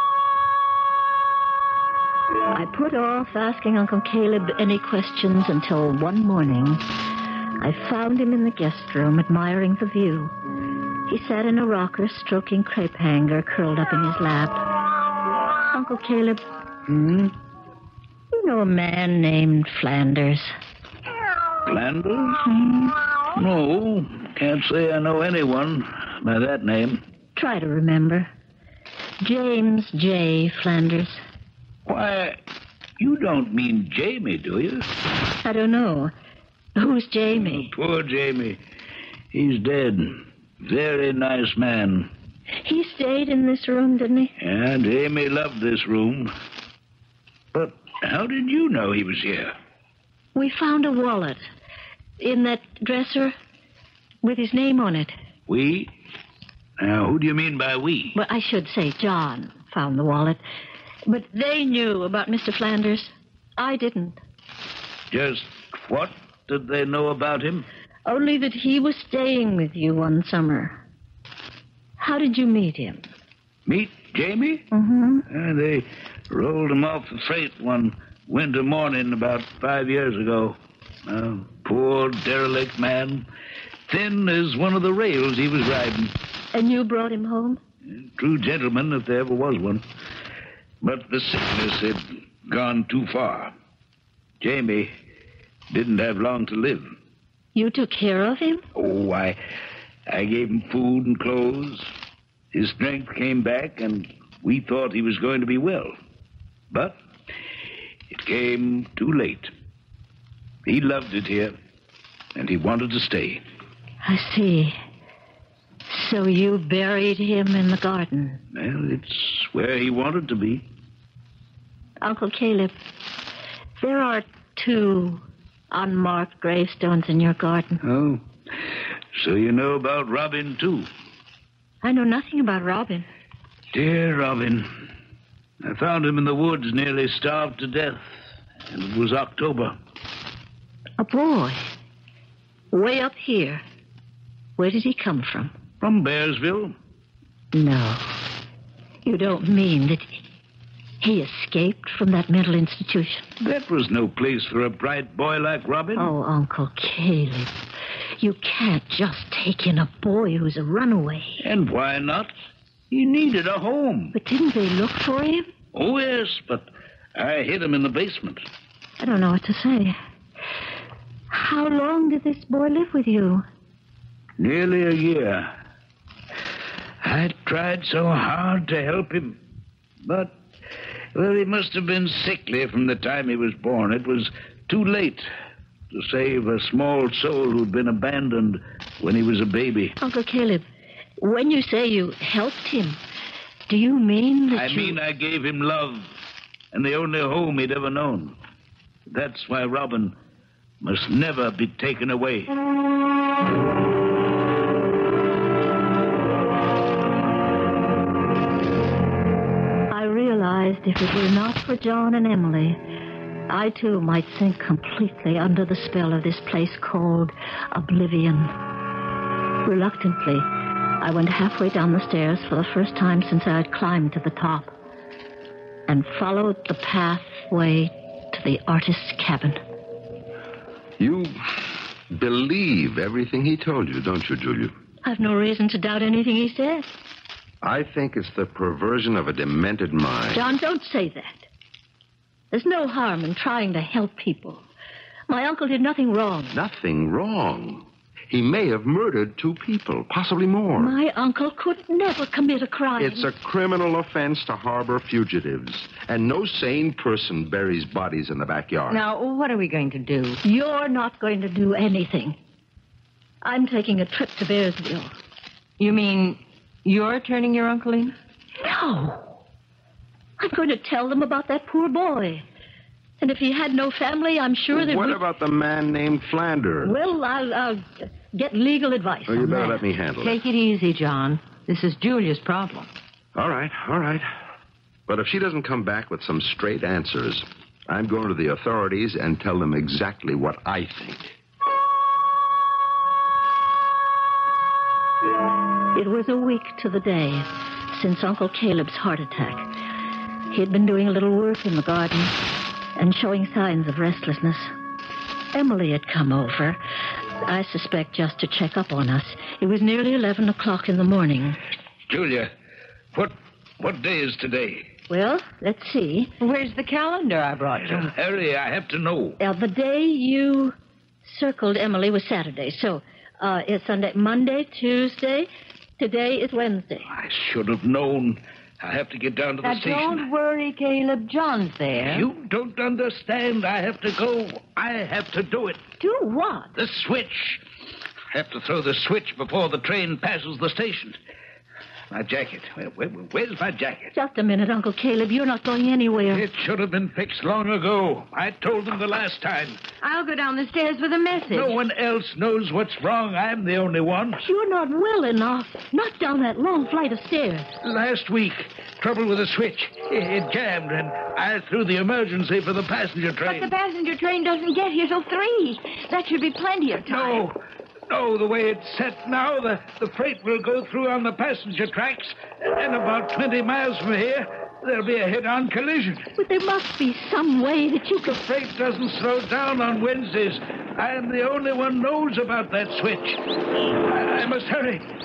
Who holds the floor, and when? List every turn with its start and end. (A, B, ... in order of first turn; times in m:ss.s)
0:02.5-0:06.8 A
0:07.6-0:10.3 A
0:11.1-0:14.6 A
0:15.7-0:17.3 A
0:18.3-0:20.5 A
0:21.6-0:22.5 B
0:22.5-0:22.9 A
0:23.3-0:27.0 B
0:27.4-0:28.3 A
0:29.2-0:31.2 A
0:31.8-0:32.4 B
0:33.0-0:34.9 B
0:35.4-0:36.1 A
0:36.8-0:37.7 A
0:37.4-0:38.6 B
0:39.3-0:42.1 B
0:42.6-0:44.3 A
0:44.4-0:46.3 B
0:47.5-0:49.5 B
0:50.3-0:51.4 A
0:52.2-0:53.3 A
0:54.2-0:55.1 A
0:55.5-0:55.9 B
0:56.8-0:58.1 B
0:58.1-1:00.4 A
1:01.1-1:04.2 A
1:05.1-1:07.6 B
1:08.0-1:10.8 A
1:12.0-1:13.0 A
1:13.6-1:14.7 B
1:14.7-1:15.2 A
1:15.3-1:23.3 B
1:23.9-1:26.1 B
1:26.5-1:27.6 A
1:28.0-1:29.8 B
1:30.8-1:33.5 B
1:34.4-1:34.9 B
1:35.7-1:36.9 B
1:37.5-1:38.6 A
1:38.8-1:39.4 B
1:40.1-1:41.9 B
1:42.5-1:45.9 B
1:46.7-1:47.0 B
1:48.1-1:49.5 B
1:50.6-1:51.5 B
1:52.3-1:53.4 B
1:54.0-1:54.8 A
1:55.9-1:58.4 A
1:58.5-2:00.6 B
2:02.0-2:02.7 A
2:03.8-2:07.8 A
2:07.8-2:10.9 B
2:11.8-2:13.0 A
2:13.7-2:14.7 B
2:15.6-2:18.0 B
2:18.7-2:19.8 B
2:21.0-2:21.7 A
2:22.7-2:23.6 A
2:24.6-2:25.5 A
2:25.8-2:26.7 B
2:27.5-2:28.2 A
2:29.0-2:30.2 A
2:31.0-2:33.2 A
2:33.4-2:36.1 B
2:36.0-2:37.5 A
2:38.2-2:41.4 A
2:41.4-2:42.3 B
2:42.9-2:44.1 B
2:44.1-2:45.5 A
2:45.7-2:48.4 B
2:49.0-2:50.0 A
2:51.3-2:53.4 A
2:54.4-2:55.5 B
2:57.0-2:59.4 B
3:00.0-3:00.3 B
3:01.1-3:05.3 B
3:05.9-3:10.0 B
3:10.0-3:10.6 A
3:11.2-3:13.0 A
3:13.7-3:15.0 A
3:14.5-3:16.1 B
3:16.7-3:18.4 B
3:19.1-3:20.1 B
3:20.8-3:22.5 B
3:29.9-3:32.8 A
3:33.5-3:38.5 A
3:39.6-3:40.5 A
3:41.0-3:44.7 A
3:45.9-3:49.6 A
3:51.0-3:54.7 C
3:55.0-3:56.9 A
3:57.6-4:00.4 C
4:00.3-4:01.4 A
4:02.5-4:04.6 A
4:05.3-4:06.6 A
4:06.5-4:11.0 C
4:10.8-4:13.3 A
4:13.0-4:19.0 C
4:18.9-4:20.4 D
4:20.4-4:22.4 A
4:23.4-4:25.1 A
4:25.8-4:28.1 D
4:28.6-4:29.3 A
4:30.4-4:32.4 A
4:33.2-4:35.2 A
4:34.7-4:36.9 C
4:36.8-4:39.8 A
4:39.3-4:40.4 C
4:40.2-4:42.9 D
4:43.3-4:44.3 C
4:45.1-4:51.3 C
4:55.9-4:59.7 A
5:00.5-5:02.4 A
5:03.0-5:04.7 A
5:05.5-5:06.8 A
5:07.4-5:11.6 A
5:12.1-5:12.5 B
5:13.1-5:14.8 B
5:15.1-5:16.3 A
5:16.4-5:18.1 D
5:17.8-5:19.4 B
5:19.4-5:27.1 A
5:27.1-5:30.3 B
5:29.6-5:32.2 D
5:32.0-5:35.8 B
5:36.0-5:36.7 A
5:36.8-5:37.6 B
5:38.3-5:41.2 B
5:42.1-5:44.1 B
5:44.1-5:46.4 A
5:46.3-5:49.8 B
5:50.0-5:51.8 D
5:51.5-5:54.4 B
5:54.4-5:57.7 A
5:57.8-6:03.7 B
6:03.4-6:07.5 D
6:07.0-6:07.5 B
6:08.1-6:16.3 B
6:16.4-6:18.4 A
6:18.2-6:23.4 B
6:24.0-6:25.0 B